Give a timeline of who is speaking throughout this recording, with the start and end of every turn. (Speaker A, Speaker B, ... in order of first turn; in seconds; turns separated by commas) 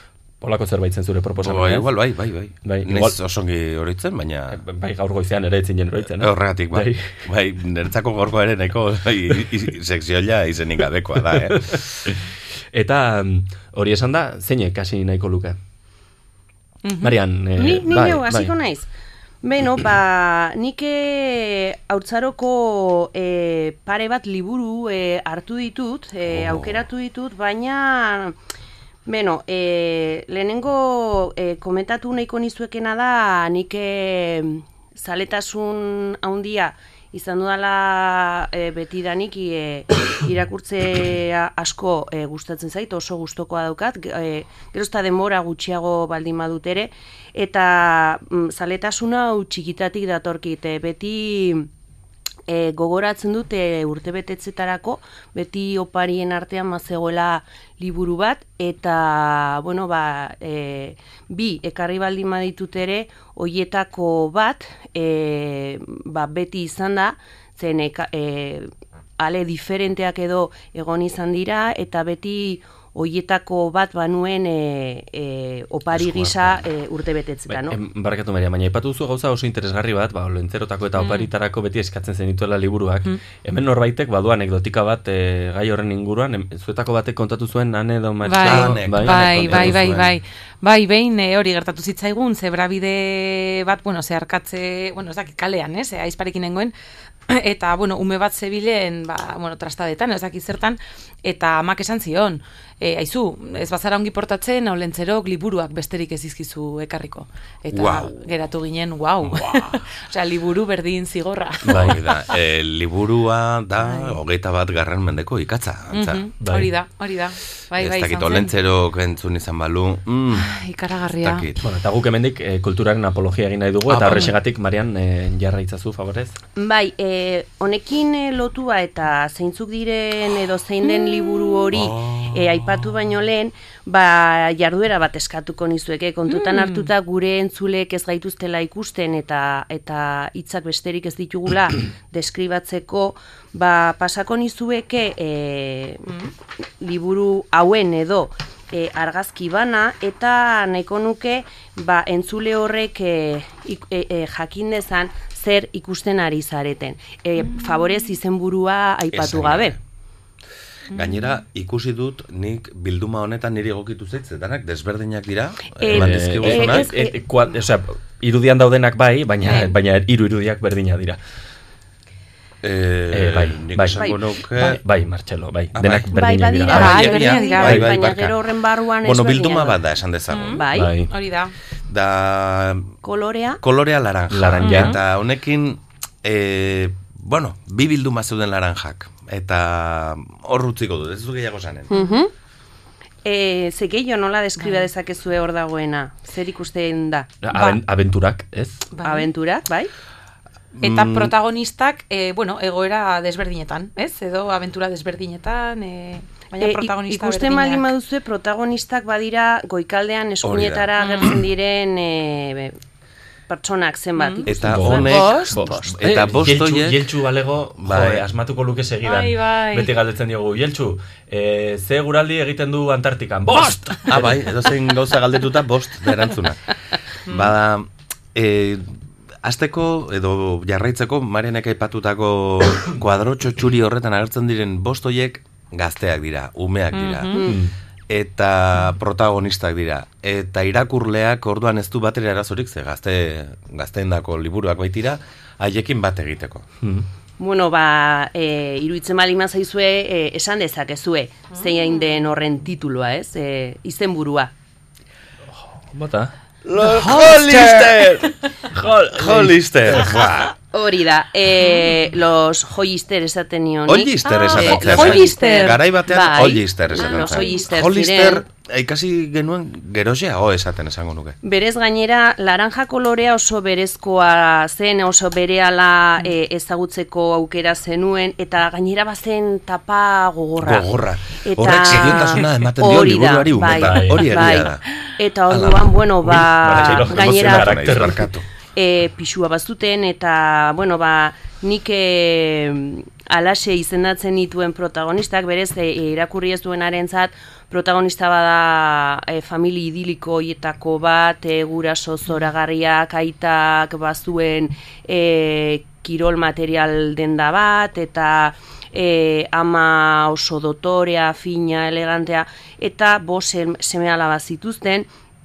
Speaker A: 0.4-1.9, Speaker B: 1.4-4.6, Speaker A: 2.6-3.2, Speaker A: 4.5-7.0, Speaker B: 6.1-11.9, Speaker A: 11.3-12.2, Speaker A: 12.7-15.6, Speaker C: 16.8-17.1, Speaker A: 17.0-18.5, Speaker D: 17.6-18.9, Speaker D: 19.4-28.4, Speaker B: 26.3-26.9, Speaker D: 29.1-51.7, Speaker D: 52.5-77.8, Speaker B: 76.0-76.5, Speaker A: 77.5-89.8, Speaker C: 81.0-81.3, Speaker C: 88.3-96.7, Speaker B: 88.4-90.1, Speaker C: 97.3-112.2, Speaker B: 107.7-108.3, Speaker B: 109.2-109.8, Speaker B: 111.7-116.2, Speaker A: 111.7-111.9, Speaker C: 113.8-114.2, Speaker C: 115.9-118.5, Speaker A: 116.4-116.7, Speaker B: 117.8-120.5, Speaker C: 120.3-121.5, Speaker B: 121.2-121.6, Speaker A: 121.6-126.4, Speaker B: 123.9-124.3, Speaker D: 126.6-146.1, Speaker B: 131.7-132.7, Speaker C: 136.3-136.9, Speaker D: 146.8-159.8, Speaker B: 159.1-159.8, Speaker B: 160.9-166.9, Speaker D: 165.8-167.2, Speaker A: 165.9-171.2, Speaker C: 169.4-169.7, Speaker B: 172.6-174.8, Speaker A: 173.1-177.0, Speaker B: 175.8-178.4, Speaker D: 176.1-179.8, Speaker C: 176.7-177.8, Speaker B: 179.0-180.6, Speaker C: 180.3-181.5, Speaker D: 180.6-180.9, Speaker A: 180.7-181.1, Speaker B: 181.9-182.9, Speaker D: 183.0-183.6, Speaker B: 183.6-191.9, Speaker A: 184.3-184.9, Speaker C: 184.6-185.0, Speaker D: 191.9-192.3, Speaker C: 191.9-192.2, Speaker D: 193.2-197.8, Speaker C: 194.6-194.9, Speaker A: 197.4-198.8, Speaker C: 198.9-199.3, Speaker D: 199.0-199.9, Speaker B: 200.8-201.3, Speaker C: 200.8-207.9, Speaker D: 206.6-212.8, Speaker B: 210.4-210.9, Speaker C: 211.0-211.4, Speaker D: 213.5-215.5, Speaker C: 214.2-214.4, Speaker B: 214.5-217.1, Speaker A: 214.6-224.3, Speaker B: 217.8-218.2, Speaker C: 219.0-219.9, Speaker B: 224.1-228.9, Speaker C: 227.3-227.5, Speaker B: 229.4-237.4, Speaker C: 236.9-237.4, Speaker A: 237.4-237.7, Speaker B: 238.1-246.7, Speaker A: 246.8-247.1, Speaker D: 247.4-254.5, Speaker A: 255.8-258.0, Speaker B: 256.7-258.3, Speaker A: 258.7-260.1, Speaker B: 259.1-260.5, Speaker D: 260.7-268.4, Speaker C: 261.6-261.9, Speaker B: 263.9-271.4, Speaker C: 264.2-265.8, Speaker C: 266.9-267.7, Speaker D: 271.4-280.9, Speaker B: 280.6-284.8, Speaker D: 281.4-288.2, Speaker A: 283.7-284.4, Speaker B: 285.5-288.4, Speaker A: 286.3-288.2, Speaker D: 288.8-315.1